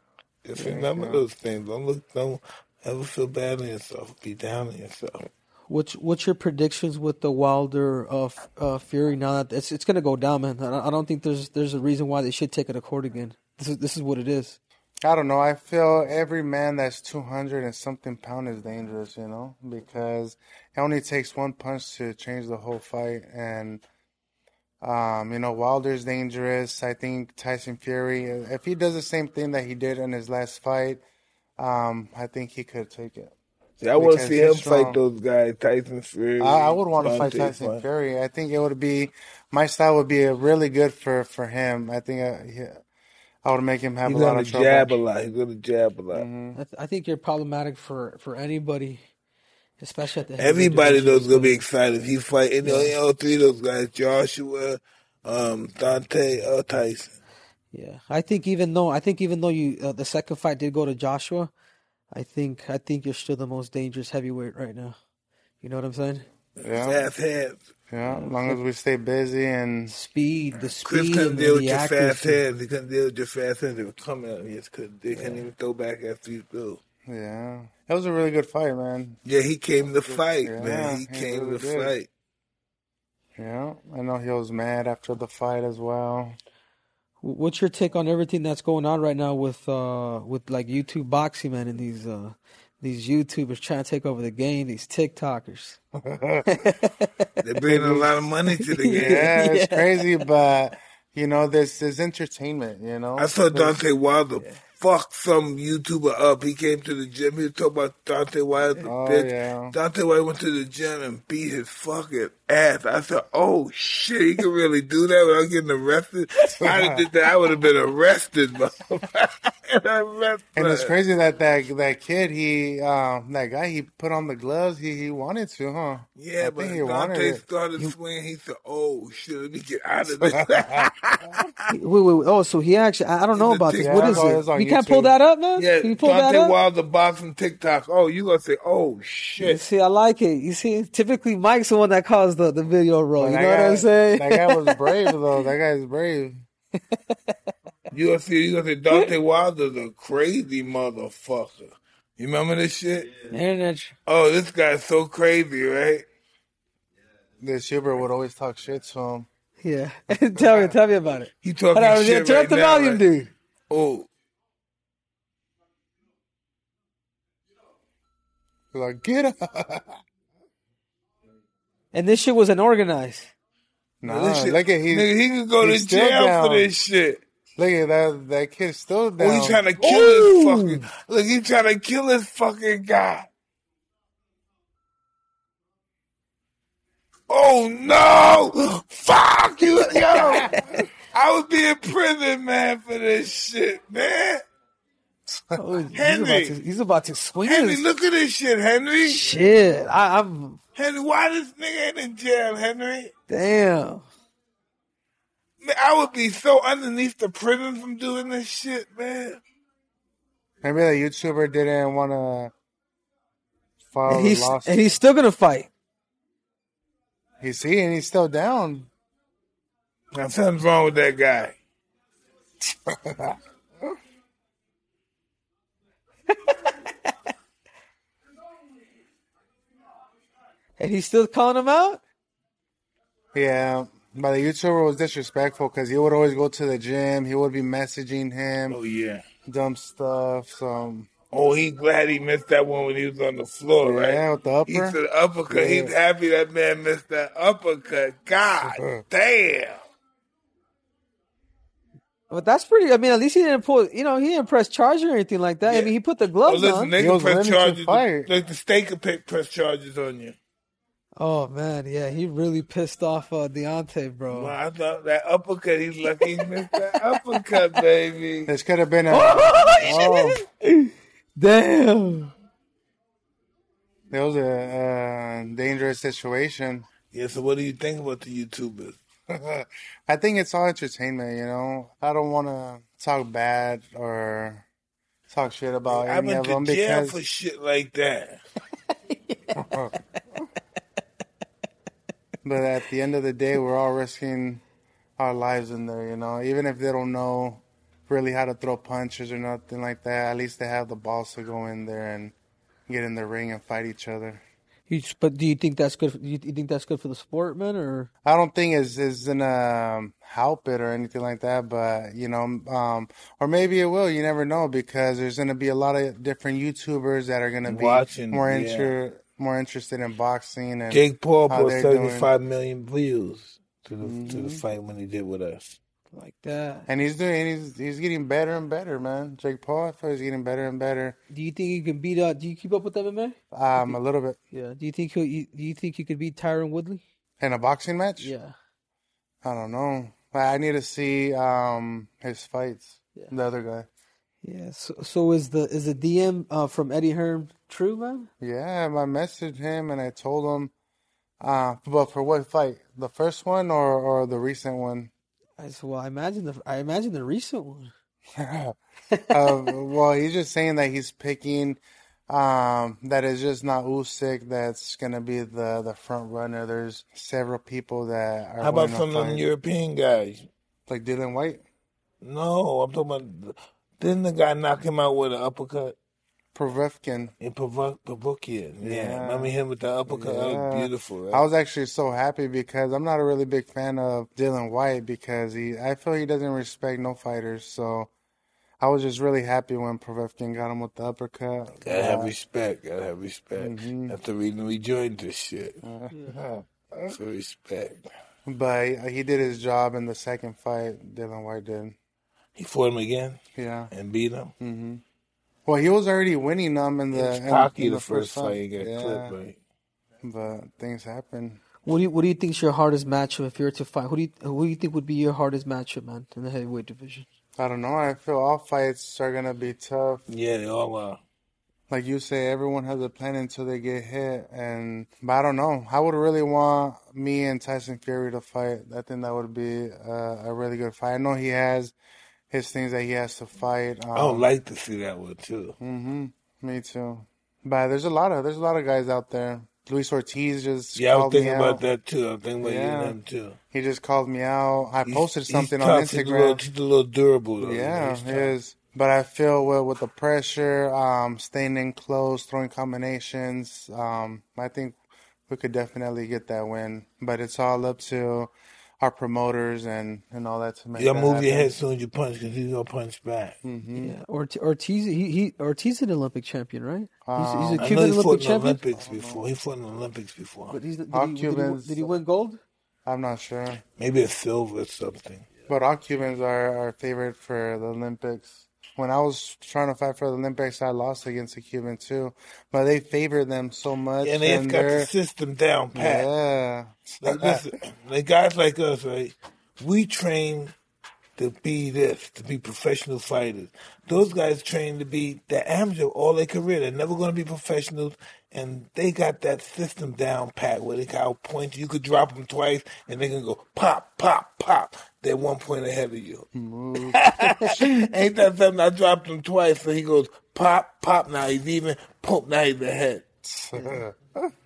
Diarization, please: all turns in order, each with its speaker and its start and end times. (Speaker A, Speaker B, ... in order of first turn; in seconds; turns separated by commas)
Speaker A: 0.4-5.3, Speaker B: 0.6-1.2, Speaker C: 5.7-14.6, Speaker B: 15.0-23.8, Speaker B: 24.8-31.0, Speaker B: 31.6-33.3, Speaker A: 33.8-37.8, Speaker B: 34.0-35.0, Speaker B: 36.4-42.8, Speaker B: 43.4-45.0, Speaker A: 44.0-46.3, Speaker B: 46.1-46.6, Speaker C: 46.5-49.0, Speaker C: 49.8-51.6, Speaker A: 50.4-57.2, Speaker C: 52.6-53.0, Speaker C: 57.7-61.5, Speaker C: 62.1-65.0, Speaker C: 65.6-66.3, Speaker A: 66.6-67.7, Speaker B: 66.6-67.0, Speaker B: 67.9-69.9, Speaker C: 68.0-68.6, Speaker C: 69.9-72.4, Speaker A: 70.8-76.8, Speaker C: 75.1-75.5, Speaker B: 77.1-79.2, Speaker A: 79.2-82.1, Speaker B: 80.1-81.9, Speaker B: 83.4-86.4, Speaker C: 87.2-95.8, Speaker B: 96.0-96.6, Speaker C: 96.5-100.0, Speaker A: 97.4-99.4, Speaker B: 99.0-103.8, Speaker A: 103.2-120.9, Speaker B: 108.8-109.8, Speaker B: 116.6-117.0, Speaker B: 120.6-128.0, Speaker A: 126.2-131.7, Speaker B: 130.2-131.3, Speaker C: 131.7-136.6, Speaker A: 133.3-134.4, Speaker B: 133.8-135.1, Speaker A: 135.6-139.6, Speaker C: 139.4-145.2, Speaker B: 143.2-146.4, Speaker A: 147.9-153.2, Speaker C: 153.3-154.0, Speaker A: 154.1-156.1, Speaker B: 157.4-159.3, Speaker C: 159.6-163.3, Speaker B: 160.3-160.8, Speaker A: 161.4-163.0, Speaker A: 163.7-164.1, Speaker B: 168.7-169.9, Speaker C: 171.9-173.3, Speaker B: 174.0-176.7, Speaker A: 174.1-177.2, Speaker B: 177.6-179.6, Speaker A: 179.2-183.3, Speaker C: 179.8-180.8, Speaker A: 187.3-194.4, Speaker C: 190.2-190.6, Speaker B: 195.3-195.6, Speaker C: 195.6-197.9, Speaker A: 195.9-196.6, Speaker A: 197.4-199.2, Speaker C: 199.1-200.6, Speaker A: 200.8-203.1, Speaker C: 203.3-204.1, Speaker A: 205.6-209.4, Speaker B: 210.6-212.5, Speaker B: 213.9-214.8, Speaker C: 214.1-215.7, Speaker B: 217.4-218.9, Speaker A: 220.1-221.6, Speaker B: 222.9-223.3, Speaker C: 230.8-232.0, Speaker B: 233.3-238.8, Speaker A: 238.7-239.2, Speaker B: 239.5-241.1, Speaker A: 241.3-249.8, Speaker B: 243.8-245.9, Speaker B: 248.6-249.0, Speaker C: 252.3-256.9, Speaker A: 255.7-255.9, Speaker A: 256.5-260.4, Speaker B: 257.0-258.3, Speaker C: 261.2-264.6, Speaker A: 264.3-268.5, Speaker C: 266.2-266.8, Speaker B: 268.5-270.4, Speaker C: 269.1-272.3, Speaker A: 269.7-270.1, Speaker B: 274.1-276.9, Speaker A: 277.1-279.0, Speaker B: 279.3-284.7, Speaker B: 285.3-287.2, Speaker A: 285.9-288.4, Speaker C: 289.1-289.9, Speaker B: 289.6-289.9, Speaker B: 292.4-294.6, Speaker B: 295.2-302.4, Speaker B: 302.9-304.4, Speaker C: 304.9-308.1, Speaker B: 308.2-322.3, Speaker A: 317.6-318.9, Speaker A: 320.9-325.8, Speaker B: 324.0-324.6, Speaker C: 326.1-326.9, Speaker B: 326.9-331.2, Speaker C: 331.3-334.0, Speaker B: 333.5-334.4, Speaker C: 334.5-337.0, Speaker B: 337.4-338.3, Speaker C: 338.2-338.5, Speaker B: 339.4-343.9, Speaker C: 344.4-348.3, Speaker B: 348.4-350.7, Speaker B: 351.4-355.1, Speaker C: 355.6-357.9, Speaker B: 358.4-358.8, Speaker C: 359.1-359.7, Speaker B: 359.3-369.4, Speaker A: 368.6-370.5, Speaker B: 370.9-371.6, Speaker A: 372.2-376.0, Speaker B: 376.6-377.3, Speaker A: 377.4-381.5, Speaker B: 378.8-379.5, Speaker B: 380.1-388.1, Speaker B: 388.8-392.3, Speaker A: 391.8-395.8, Speaker B: 393.6-394.2, Speaker B: 395.8-396.1, Speaker C: 396.1-396.4, Speaker A: 397.1-398.1, Speaker B: 398.5-401.9, Speaker A: 402.6-403.4, Speaker B: 403.6-403.9, Speaker A: 403.9-404.5, Speaker B: 404.6-405.0, Speaker B: 405.7-409.3, Speaker A: 407.1-409.6, Speaker B: 410.2-411.6, Speaker C: 411.8-417.3, Speaker B: 417.6-420.2, Speaker A: 420.3-421.2, Speaker B: 421.9-431.9, Speaker B: 432.5-434.5, Speaker A: 434.1-435.8, Speaker B: 435.8-441.8, Speaker A: 440.9-443.6, Speaker B: 442.6-443.2, Speaker B: 443.7-446.6, Speaker A: 445.1-448.6, Speaker B: 447.6-461.7, Speaker A: 461.0-463.6, Speaker B: 463.6-464.1, Speaker C: 464.0-468.8, Speaker B: 467.2-467.9, Speaker A: 467.8-470.8, Speaker B: 468.9-469.4, Speaker C: 470.7-472.6, Speaker B: 471.1-472.1, Speaker B: 473.1-473.8, Speaker A: 474.0-475.5, Speaker B: 475.7-485.1, Speaker A: 484.2-486.3, Speaker B: 485.9-487.6, Speaker A: 487.2-490.7, Speaker A: 491.4-506.5, Speaker B: 506.6-507.9, Speaker A: 507.0-513.2, Speaker B: 513.5-514.5, Speaker C: 513.7-514.0